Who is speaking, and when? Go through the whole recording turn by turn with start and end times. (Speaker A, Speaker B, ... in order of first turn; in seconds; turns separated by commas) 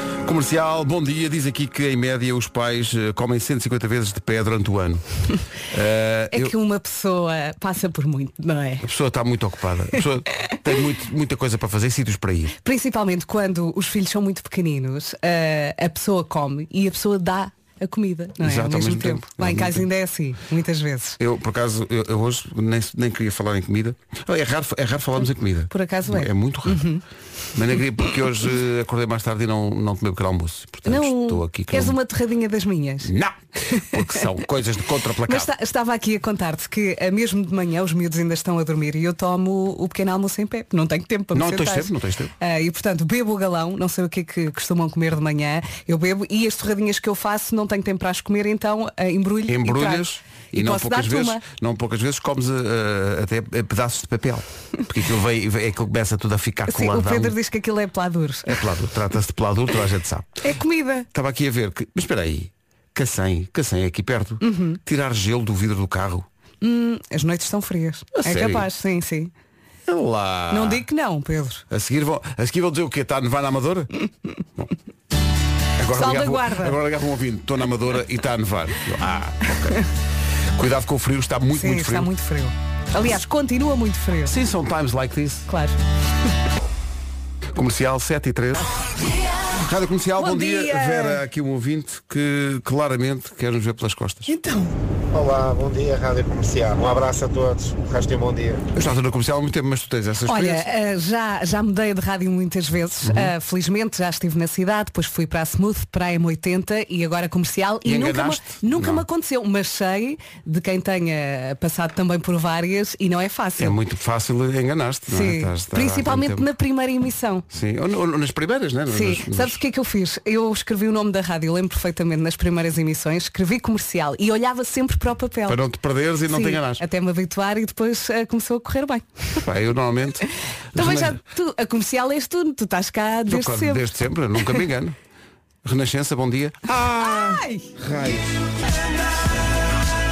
Speaker A: 0.2-5.0, Speaker A: 5.6-6.5, Speaker B: 6.3-8.9, Speaker A: 8.8-12.6, Speaker B: 12.6-21.2, Speaker A: 18.4-19.9, Speaker A: 21.2-26.9, Speaker B: 25.7-27.0, Speaker A: 27.5-32.0, Speaker B: 30.9-33.1, Speaker A: 33.0-35.5, Speaker B: 35.3-51.4, Speaker A: 41.3-42.3, Speaker A: 49.5-57.4, Speaker B: 56.7-58.6, Speaker A: 58.5-60.5, Speaker B: 60.4-61.1, Speaker A: 61.1-66.3, Speaker B: 64.4-64.8, Speaker B: 66.6-69.3, Speaker A: 68.2-68.7, Speaker A: 69.9-70.9, Speaker B: 70.5-71.6, Speaker A: 71.7-73.9, Speaker A: 75.8-79.8, Speaker B: 75.9-76.8, Speaker A: 80.5-82.1, Speaker B: 81.5-84.3, Speaker A: 84.3-85.5, Speaker B: 85.5-85.8, Speaker A: 87.5-88.7, Speaker A: 89.5-94.3, Speaker B: 90.2-91.2, Speaker B: 94.3-94.7, Speaker C: 95.1-98.7, Speaker A: 98.7-100.7, Speaker B: 100.3-113.8, Speaker A: 103.0-103.3, Speaker A: 107.8-109.0, Speaker A: 113.6-116.5, Speaker B: 115.1-117.5, Speaker A: 117.5-119.6, Speaker B: 118.9-125.6, Speaker A: 125.5-126.8, Speaker B: 126.3-129.4, Speaker A: 129.4-131.2, Speaker B: 130.8-133.9, Speaker A: 133.3-135.0, Speaker A: 135.6-138.3, Speaker B: 137.0-137.7